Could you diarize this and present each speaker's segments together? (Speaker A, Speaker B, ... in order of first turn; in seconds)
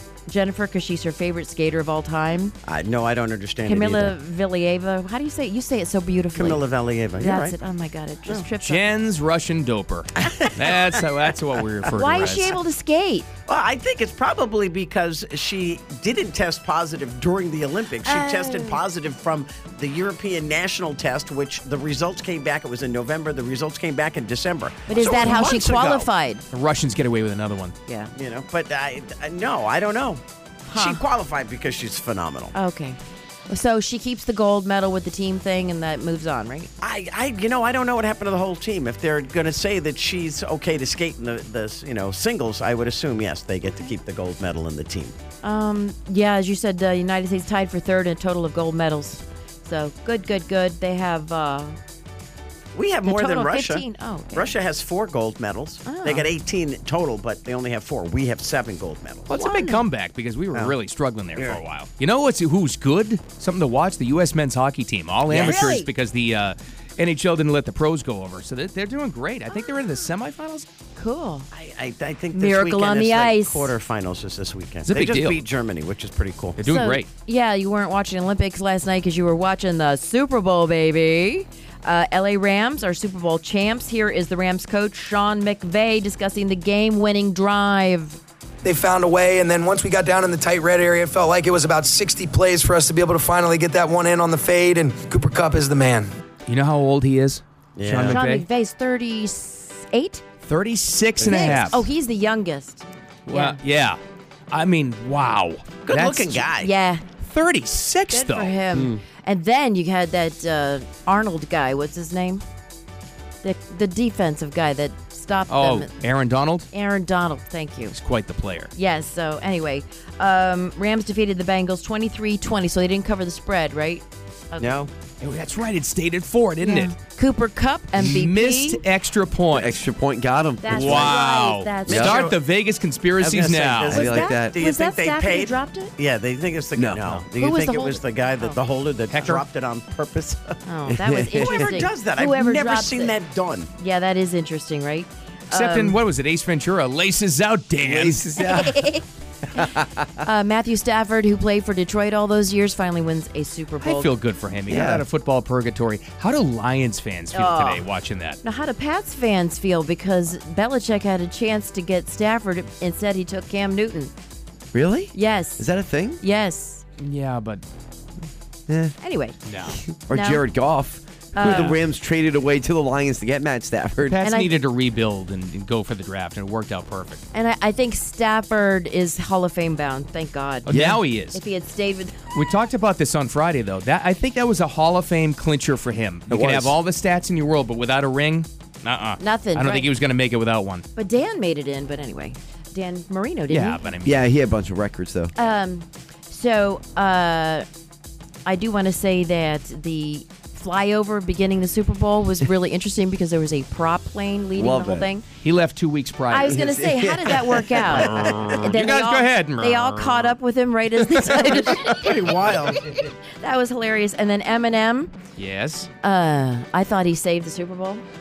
Speaker A: 0.3-2.5, 3.6-6.6, 7.2-8.8, 11.9-13.3, 18.0-18.8, 24.9-26.4, 30.7-31.0, 32.5-36.7, 45.4-51.8, 53.0-54.6, 55.9-56.3, 59.3-59.8, 65.4-65.9, 71.0-71.5, 72.3-73.7, 76.6-88.2, 98.0-100.2, 101.2-103.6, 106.5-107.0, 108.1-112.4, 113.4-116.0, 116.7-118.0, 118.7-124.8, 126.6-128.8, 130.6-132.2, 133.9-135.9, 137.4-138.6, 140.7-143.2, 143.8-146.0, 148.4-149.0, 150.2-154.1, 157.3-157.8, 158.4-164.1, 165.1-165.7, 166.2-166.8, 169.0-169.4, 170.1-170.4, 171.3-171.8, 174.2-174.5, 177.3-180.7, 181.3-182.3, 189.2-189.9, 190.9-193.9, 195.3-197.6, 198.4-205.2, 206.3-215.1, 216.0-218.0
Speaker B: 2.6-4.2, 6.3-7.6, 10.2-11.0, 13.5-26.1, 28.1-32.5, 36.8-45.1, 52.7-59.3, 61.3-61.6, 65.3-65.7, 71.5-76.6, 97.8-98.2, 105.8-106.7, 124.6-124.9, 133.2-140.6, 141.4-143.7, 208.0-208.5, 212.0-212.8
Speaker C: 8.6-12.6, 26.5-27.7, 59.3-70.7, 74.8-75.4, 76.6-77.1, 96.5-98.5, 100.5-101.8, 103.3-106.4, 107.2-108.5, 115.5-116.7, 117.9-118.7, 125.2-127.0, 128.0-129.8, 130.7-134.1, 139.1-139.4, 145.5-148.4, 153.8-158.4, 167.0-167.6, 169.4-169.8, 171.4-171.8, 174.0-177.2, 180.7-181.4, 182.3-190.8, 193.5-194.2, 205.4-206.6, 208.6-210.2, 215.4-215.9
Speaker D: 88.6-96.1
Speaker E: 101.2-101.8, 108.7-109.0, 129.5-131.2, 131.9-132.3, 133.8-134.6, 136.7-137.1, 140.9-141.7, 147.8-148.9, 149.5-150.2, 154.7-155.0, 164.7-166.2, 168.7-168.9, 169.9-174.2, 180.7-181.0, 186.3-186.8, 194.0-195.3, 204.6-205.1, 206.4-208.7, 211.5-213.0